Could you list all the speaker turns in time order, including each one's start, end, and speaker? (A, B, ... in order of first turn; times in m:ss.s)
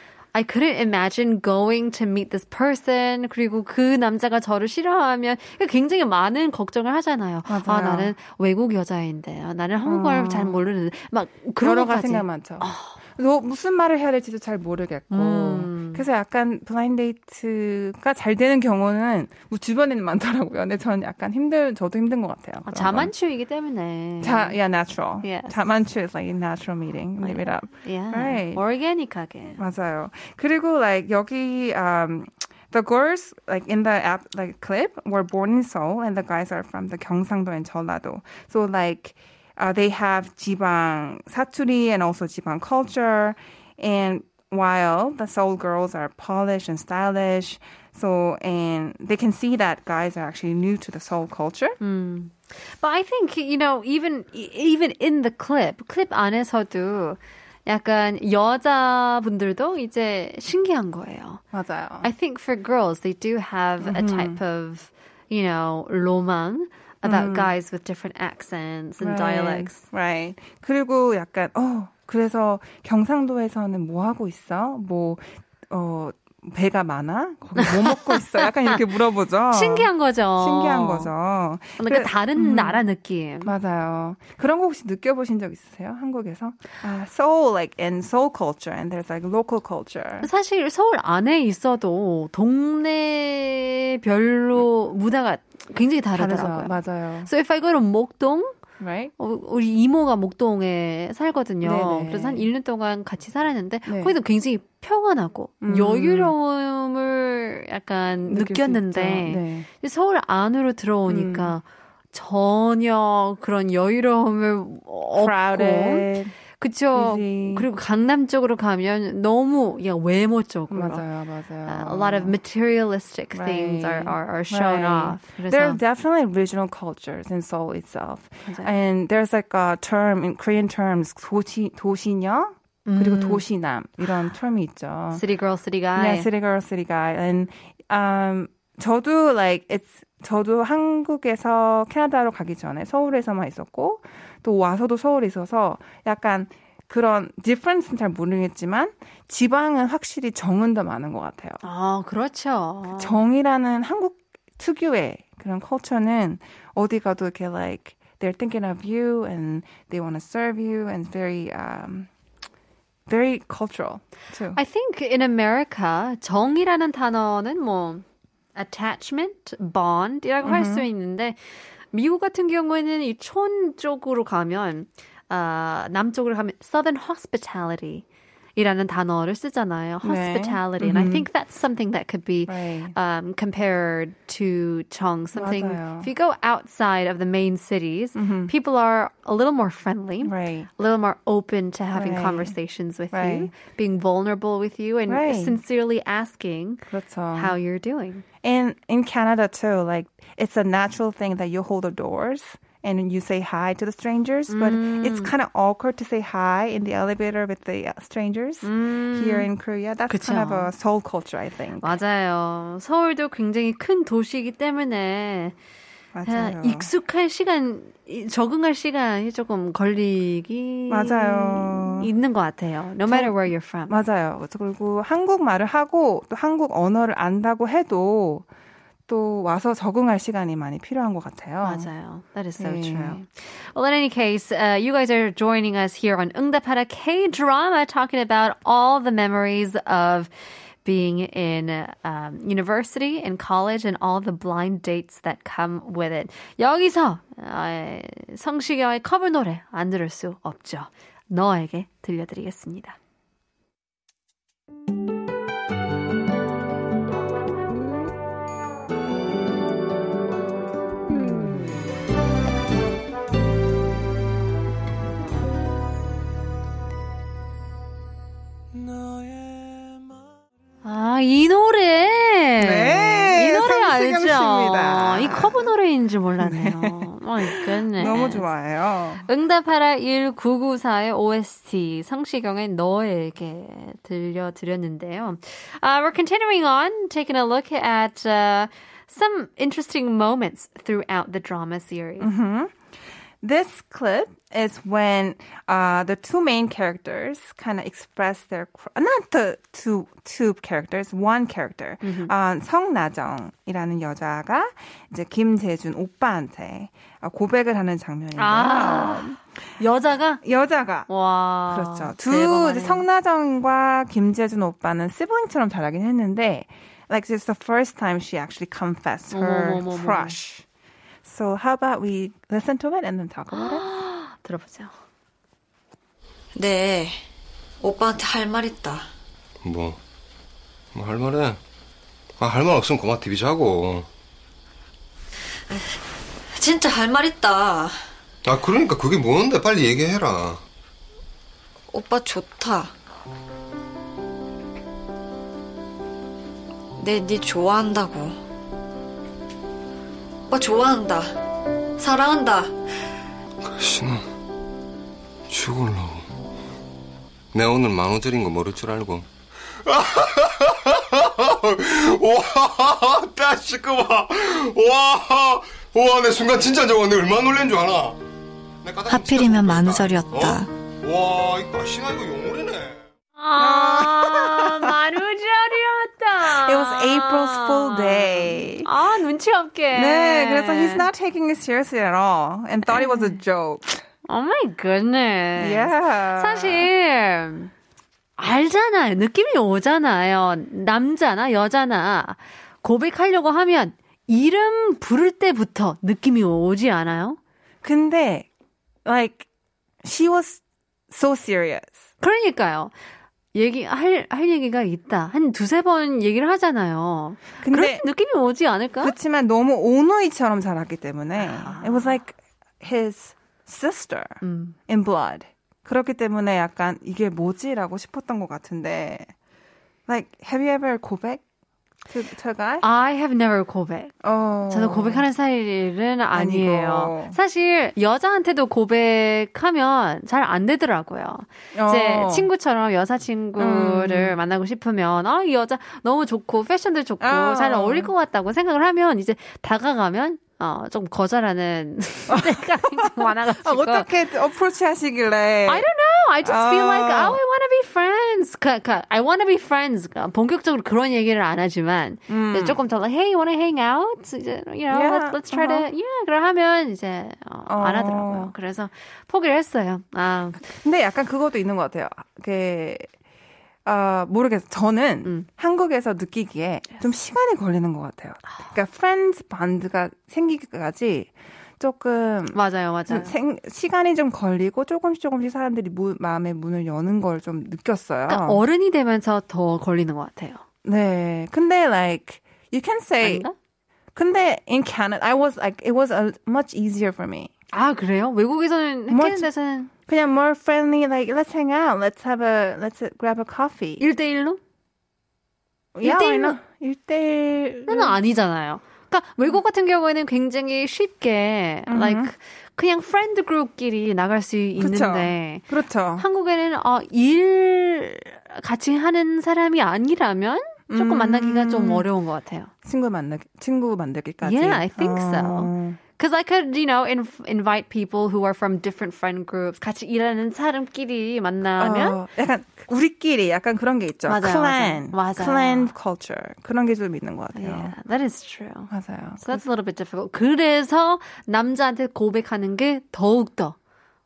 0:00.3-0:12.9 A
0:07.5-0:08.1 B
0:09.8-0:10.6 B
0:11.6-0:23.1 B
0:15.1-0:16.0 A
0:22.6-0:24.6 A
0:24.2-0:28.6 B
0:25.2-0:25.6 A
0:27.2-0:29.6 A
0:29.6-0:51.8 B
0:51.8-1:01.4 A
1:01.5-1:02.1 B
1:02.0-1:09.8 A
1:03.8-1:04.4 B
1:07.0-1:07.5 B
1:09.0-1:22.8 B
1:17.6-1:18.7 A
1:19.5-1:21.1 A
1:21.8-1:23.5 A
1:23.4-1:30.3 B
1:30.2-1:38.6 A
1:36.1-1:37.3 B
1:38.8-1:39.1 B
1:39.2-2:01.0 A
1:41.6-1:42.5 B
1:43.9-1:44.1 B
1:45.6-1:46.4 B
1:48.3-1:49.7 B
1:51.1-1:51.5 B
1:55.2-1:56.4 B
1:56.9-1:57.7 B
2:00.7-2:02.4 B
2:01.7-2:05.8 A
2:03.3-2:15.2 B
2:08.5-2:08.7 A
2:12.9-2:13.4 A
2:15.1-2:16.3 A
2:16.0-2:31.6 B
2:31.6-2:33.2 A
2:33.0-2:42.1 B
2:43.1-2:44.6 B
2:44.5-2:51.4 A
2:50.4-2:50.9 B
2:51.9-2:58.0 A
2:58.6-3:18.2 A
3:00.0-3:01.2 B
3:02.5-3:03.0 B
3:05.4-3:06.1 B
3:08.2-3:08.5 B
3:10.2-3:10.7 B
3:11.9-3:12.5 B
3:13.1-3:13.5 B
3:15.1-3:15.6 B
3:16.9-3:17.5 B
3:18.4-3:32.0 B
3:24.5-3:25.3 A
3:28.6-3:29.5 A
3:30.1-3:30.7 A
3:31.8-3:35.5 A
3:36.1-3:36.9 B
3:36.2-3:43.9 A
3:40.9-3:42.1 B
3:43.1-3:48.5 B
3:49.1-3:51.9 B
3:51.6-4:00.3 A
3:52.6-3:53.2 B
4:00.8-4:13.0 A
4:30.8-4:38.5 A
4:32.6-4:35.6 B
4:36.4-4:39.2 B
4:39.2-4:52.3 A
4:52.2-4:52.8 B
4:53.4-5:09.4 B
5:02.0-5:02.3 A
5:08.4-5:10.4 A
5:10.4-5:11.1 B
5:11.1-5:13.0 A
5:11.7-5:20.6 B
5:19.3-5:20.4 A
5:21.2-5:23.8 B
5:23.5-5:24.9 A
5:26.5-5:27.2 C
5:27.8-5:29.1 C
5:29.6-5:30.0 D
5:30.9-5:31.6 D
5:32.4-5:34.1 D
5:35.7-5:36.0 C
5:36.5-5:38.0 C
5:38.4-5:40.6 D
5:41.9-5:42.9 C
5:47.0-5:48.4 C
5:50.5-5:51.3 C
5:52.0-5:52.7 C
5:53.6-5:54.2 D
5:55.5-5:56.3 D
5:57.5-5:59.2 D
5:59.8-6:08.2 D
6:08.8-6:13.0 D
6:09.1-6:10.7 C
6:13.4-6:21.1 A
6:13.6-6:14.9 B
6:16.4-6:18.9 B
6:19.9-6:24.0 B
6:22.9-6:23.3 A
6:24.3-6:27.7 A
6:25.6-6:26.9 B
6:28.4-6:37.4 A
6:37.8-6:38.5 B
6:39.0-6:39.5 B
6:40.0-6:42.1 B
6:42.2-6:42.9 A
6:43.5-6:49.1 A
6:47.6-6:48.1 B
6:49.0-6:59.3 B
6:51.4-6:52.2 A
6:54.4-6:54.8 A
7:00.1-7:01.4 B
7:02.1-7:02.8 B
7:02.8-7:04.2 A
7:04.2-7:05.2 B
7:04.7-7:24.1 A
7:06.3-7:07.4 B
7:11.7-7:12.5 B
7:13.6-7:14.4 B
7:17.2-7:18.1 B
7:22.3-7:25.8 B
7:25.7-7:40.7 A
7:26.4-7:27.4 B
7:32.3-7:32.8 B
7:34.9-7:35.9 B
7:37.7-7:38.5 B
7:40.8-7:43.1 B
7:43.8-7:58.6 B
7:52.5-7:53.3 A
7:58.3-8:00.6 A
8:00.8-8:03.5 B
8:03.2-8:03.5 A
8:04.2-8:07.5 B
8:07.7-8:09.9 A
8:09.1-8:09.5 B
8:10.0-8:14.0 B
8:14.0-8:14.6 A
8:16.0-8:18.2 B
8:16.0-8:16.6 A
8:17.9-8:25.7 A
8:21.9-8:22.3 B
8:24.8-8:26.2 B
8:26.2-8:32.7 A
8:30.9-8:32.0 B
8:32.8-8:36.0 B
8:34.4-8:42.2 A
8:41.8-8:48.0 B
8:44.3-8:45.9 A
8:47.5-8:53.8 A
8:48.9-8:49.6 B